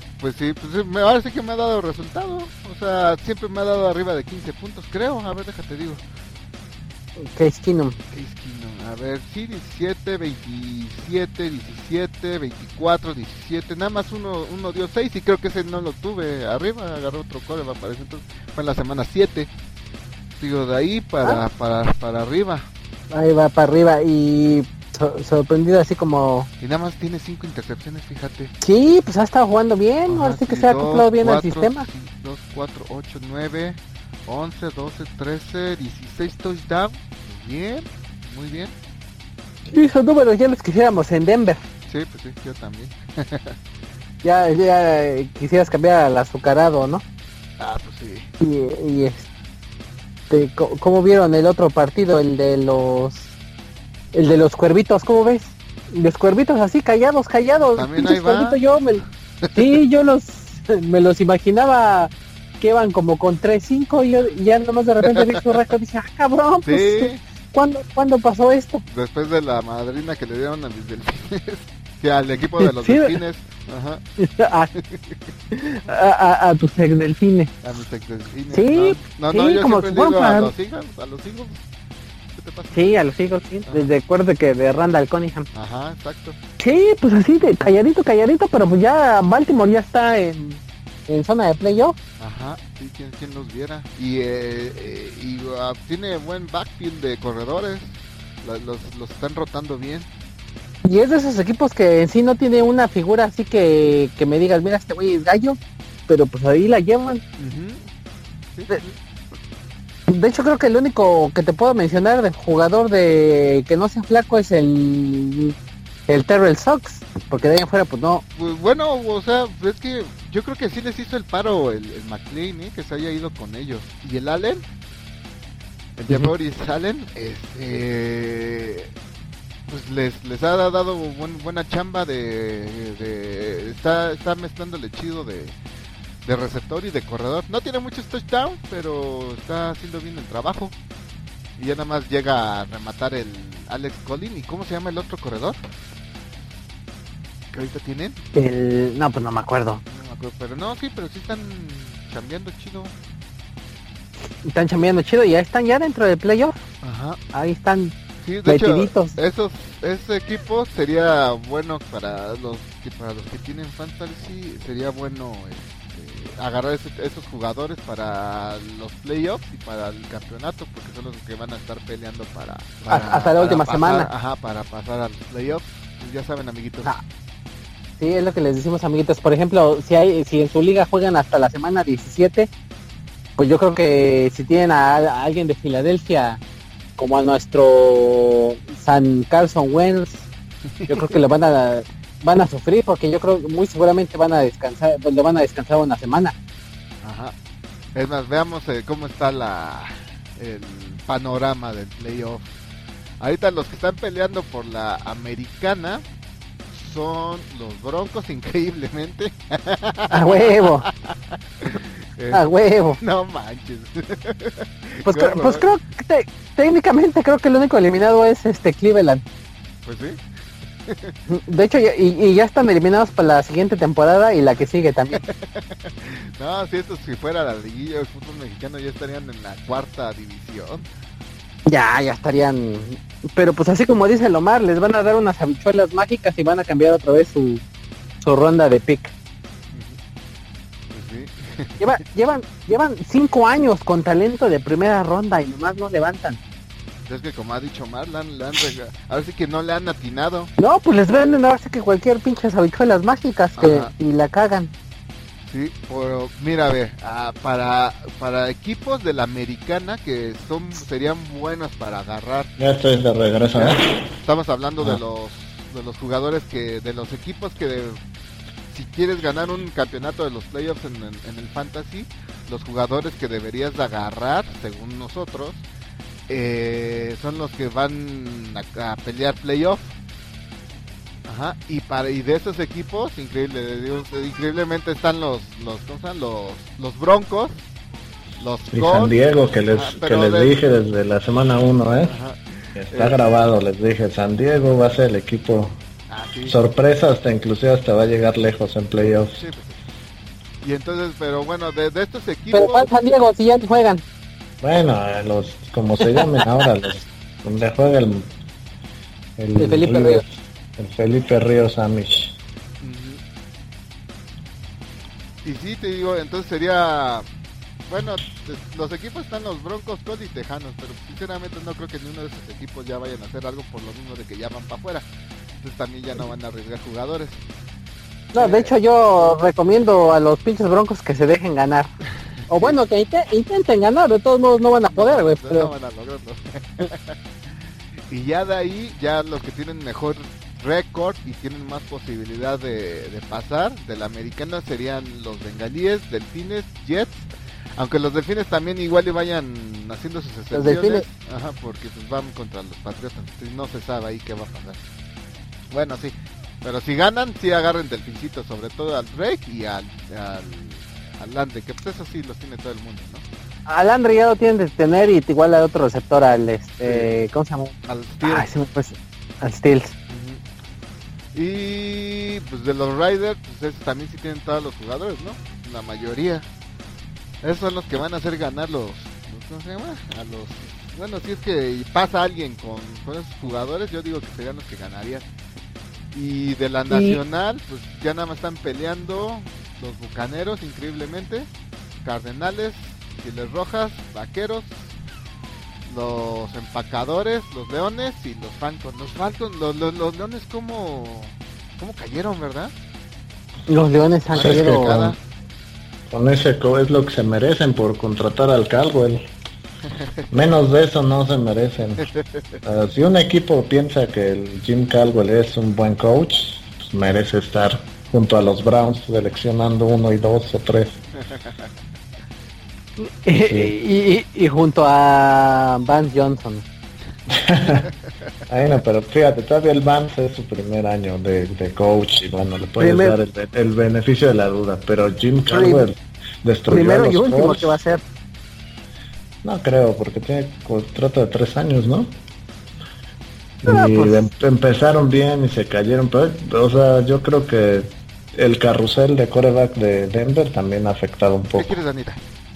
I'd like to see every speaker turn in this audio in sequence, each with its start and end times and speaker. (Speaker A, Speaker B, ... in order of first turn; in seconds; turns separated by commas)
Speaker A: 0.2-6.0, Speaker B: 7.2-8.0, Speaker A: 8.1-19.5, Speaker A: 20.4-22.7, Speaker B: 23.1-26.5, Speaker A: 26.6-28.5, Speaker B: 28.6-31.9, Speaker A: 30.1-38.7, Speaker B: 39.7-41.6, Speaker A: 41.9-43.6, Speaker B: 44.2-47.0, Speaker A: 47.6-48.3, Speaker B: 48.4-49.2, Speaker B: 50.3-53.3, Speaker B: 54.1-59.0, Speaker A: 57.8-58.6, Speaker B: 59.5-68.8, Speaker A: 65.1-65.4, Speaker A: 66.6-67.2, Speaker A: 68.9-74.0, Speaker B: 72.6-73.2, Speaker B: 74.2-74.7, Speaker A: 74.8-75.2, Speaker B: 75.5-77.5, Speaker A: 77.6-81.6, Speaker B: 78.5-80.5, Speaker A: 82.4-83.1, Speaker B: 82.8-85.5, Speaker A: 83.7-83.9, Speaker A: 85.5-86.4, Speaker B: 86.6-92.0, Speaker A: 92.2-100.1, Speaker B: 100.8-107.2, Speaker A: 107.4-107.9, Speaker A: 108.5-109.0, Speaker B: 110.1-115.5, Speaker B: 116.1-118.2, Speaker A: 118.3-124.6, Speaker A: 126.0-128.9, Speaker A: 129.7-135.6, Speaker A: 136.2-140.7, Speaker A: 141.6-145.6, Speaker A: 147.5-148.2, Speaker B: 148.3-149.8, Speaker A: 149.9-152.9, Speaker B: 154.4-156.6, Speaker A: 156.8-157.2, Speaker B: 157.3-157.9, Speaker A: 158.2-177.0, Speaker B: 158.4-159.2, Speaker B: 172.9-174.1, Speaker B: 178.0-182.5, Speaker B: 183.4-186.4, Speaker B: 187.0-190.3, Speaker A: 190.8-191.1, Speaker B: 190.9-196.3, Speaker A: 197.0-197.3, Speaker A: 197.9-202.5, Speaker A: 203.2-206.1, Speaker A: 206.7-212.5, Speaker B: 210.1-210.9, Speaker B: 212.3-213.0, Speaker A: 213.0-215.6, Speaker B: 215.1-219.2, Speaker A: 219.8-220.2, Speaker A: 220.9-221.2, Speaker B: 221.3-225.2, Speaker A: 225.1-230.9, Speaker B: 231.7-237.6, Speaker B: 238.2-239.1, Speaker A: 239.7-240.0, Speaker A: 240.9-242.0, Speaker B: 241.8-246.4, Speaker A: 247.1-250.5, Speaker B: 250.6-254.7, Speaker A: 253.6-253.9, Speaker A: 255.5-262.5, Speaker C: 262.6-263.8, Speaker A: 263.6-268.0, Speaker A: 268.7-275.6, Speaker A: 276.3-279.9, Speaker A: 281.3-287.6, Speaker A: 288.4-289.1, Speaker C: 288.7-292.2, Speaker A: 289.7-290.6, Speaker A: 292.0-293.2, Speaker C: 292.8-295.8, Speaker A: 296.1-296.6, Speaker C: 296.4-299.4, Speaker A: 299.4-299.8, Speaker A: 300.6-302.9, Speaker B: 302.5-304.0, Speaker C: 304.6-308.3, Speaker B: 306.1-306.4, Speaker C: 309.4-312.4, Speaker B: 309.6-310.2, Speaker A: 312.8-313.2, Speaker A: 315.4-317.3, Speaker A: 317.9-325.1, Speaker A: 325.6-327.4, Speaker B: 328.3-331.9, Speaker A: 328.4-328.7, Speaker A: 332.5-332.8, Speaker B: 332.5-335.7, Speaker A: 334.9-354.8, Speaker B: 350.5-351.0, Speaker A: 355.7-363.2, Speaker B: 363.7-369.9, Speaker A: 367.8-368.5, Speaker A: 370.1-370.4, Speaker A: 371.3-376.4, Speaker A: 377.4-385.2, Speaker A: 386.1-391.5, Speaker B: 386.9-387.2, Speaker A: 392.0-394.9, Speaker A: 395.9-402.7, Speaker B: 403.7-405.0, Speaker A: 404.3-405.2, Speaker C: 404.4-405.1, Speaker C: 406.1-409.2, Speaker C: 410.3-412.1, Speaker C: 412.6-420.9, Speaker A: 421.3-421.6, Speaker B: 423.0-426.6, Speaker C: 423.4-423.7, Speaker C: 427.3-427.9, Speaker C: 428.5-437.8, Speaker B: 432.8-433.2, Speaker B: 435.5-435.9, Speaker B: 436.7-438.0, Speaker C: 439.4-442.1, Speaker C: 443.6-451.8, Speaker B: 443.7-444.3, Speaker A: 451.6-452.2